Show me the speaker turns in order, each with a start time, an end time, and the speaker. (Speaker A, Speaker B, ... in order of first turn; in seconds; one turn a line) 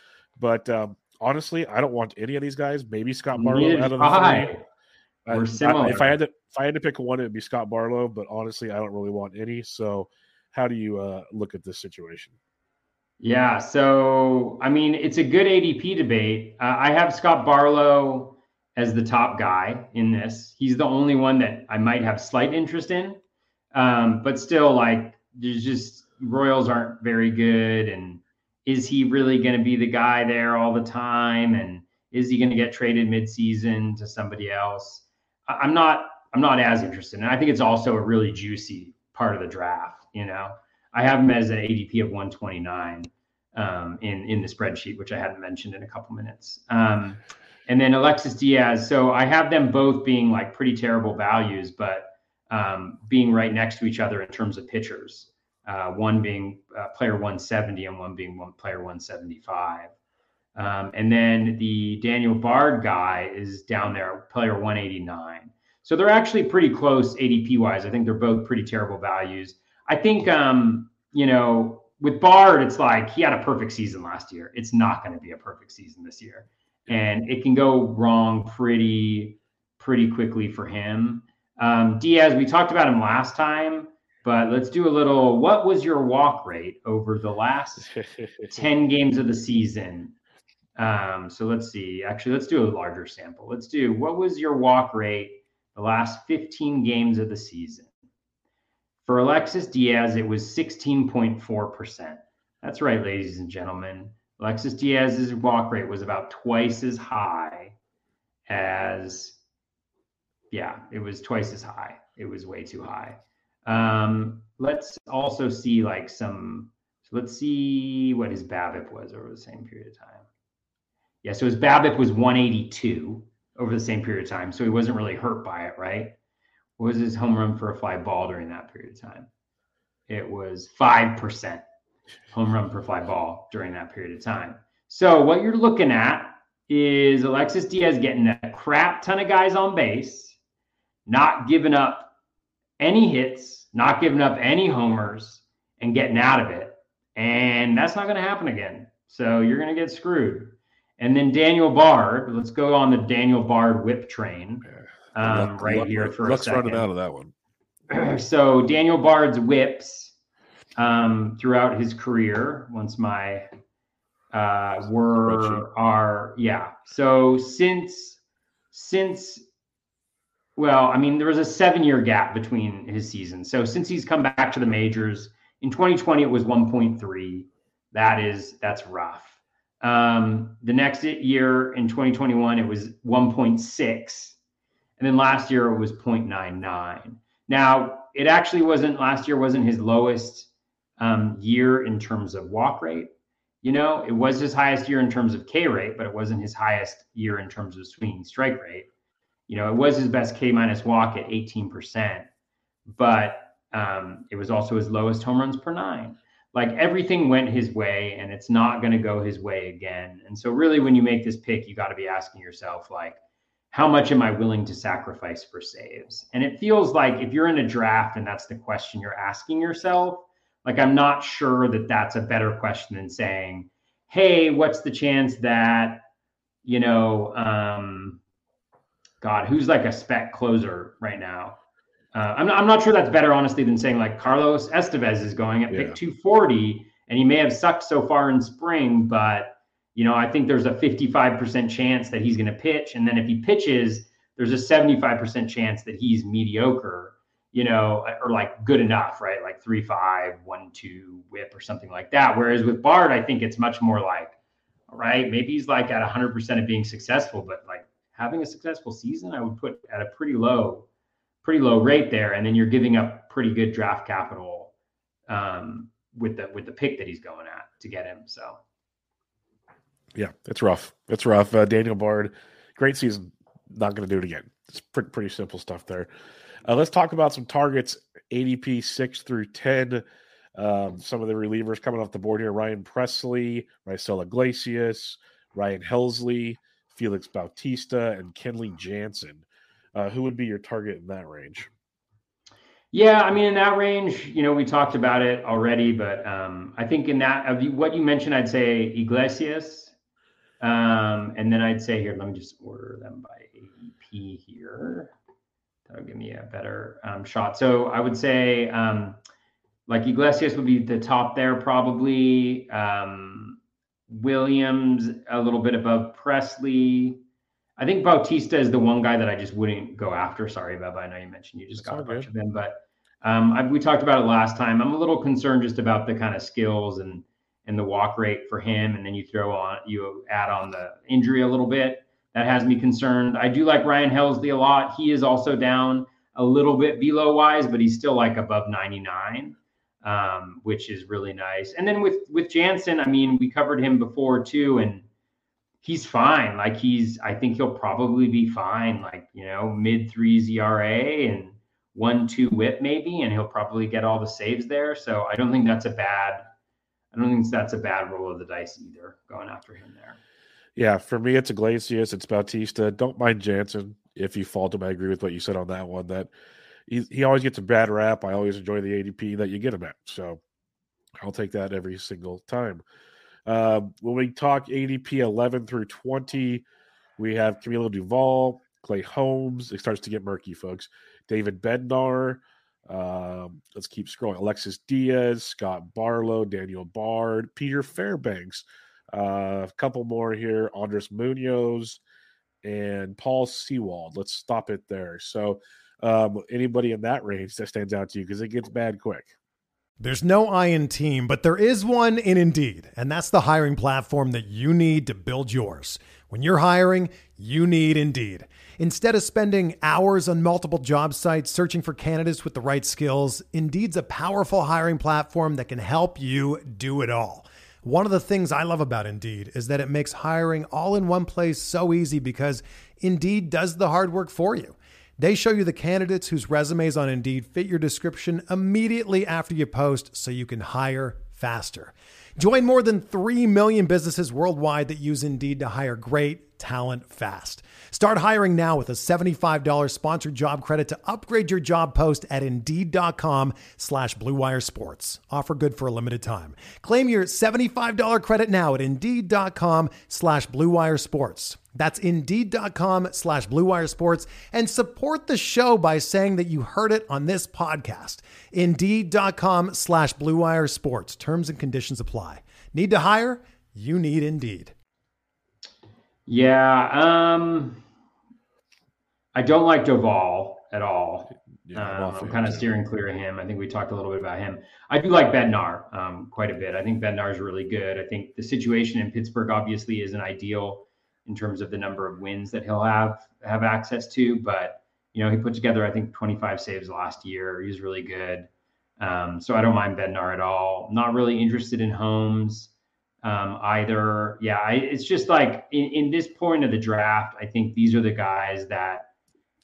Speaker A: 0.4-4.5
Speaker B: 3.3-4.6
Speaker A: 5.3-12.3
Speaker B: 5.3-6.2
Speaker B: 13.2-23.2
Speaker B: 23.7-59.9
Speaker B: 60.6-87.9
Speaker A: 87.9-88.6
Speaker B: 88.5-90.1
Speaker B: 90.8-97.9
Speaker B: 99.0-107.8
Speaker B: 108.5-109.4
Speaker B: 110.5-120.2
Speaker B: 121.2-126.2
Speaker B: 126.8-129.3
Speaker B: 130.1-131.6
Speaker B: 132.3-140.4
Speaker B: 141.1-142.1
Speaker B: 142.8-156.9
Speaker A: 154.7-157.3
Speaker B: 157.9-160.2
Speaker B: 160.8-163.5
Speaker B: 164.3-168.2
Speaker A: 165.3-165.6
Speaker B: 168.7-169.4
Speaker B: 170.6-184.4
Speaker B: 185.0-193.1
Speaker B: 193.6-198.9
Speaker B: 199.5-202.3
Speaker B: 202.9-213.2
Speaker B: 213.7-226.1
Speaker B: 226.7-228.2
Speaker B: 229.2-231.6
Speaker B: 232.1-254.3
Speaker A: 235.7-236.0
Speaker B: 254.9-260.9
Speaker B: 261.4-264.7
Speaker B: 265.3-268.6
Speaker A: 270.1-276.1
Speaker A: 276.6-280.0
Speaker A: 280.6-291.7
Speaker B: 292.9-299.9
Speaker B: 300.6-305.1
Speaker B: 305.9-309.2
Speaker B: 309.9-317.2
Speaker B: 317.8-345.1
Speaker A: 321.8-322.3
Speaker B: 345.8-356.5
Speaker B: 357.1-360.2
Speaker A: 360.8-366.3
Speaker A: 366.9-370.4
Speaker A: 371.2-372.8
Speaker A: 373.5-376.6
Speaker A: 377.2-392.0
Speaker A: 392.6-399.3
Speaker C: 400.0-464.7
Speaker B: 466.3-467.8
Speaker B: 469.3-492.7
Speaker A: 471.7-472.7
Speaker B: 493.2-499.1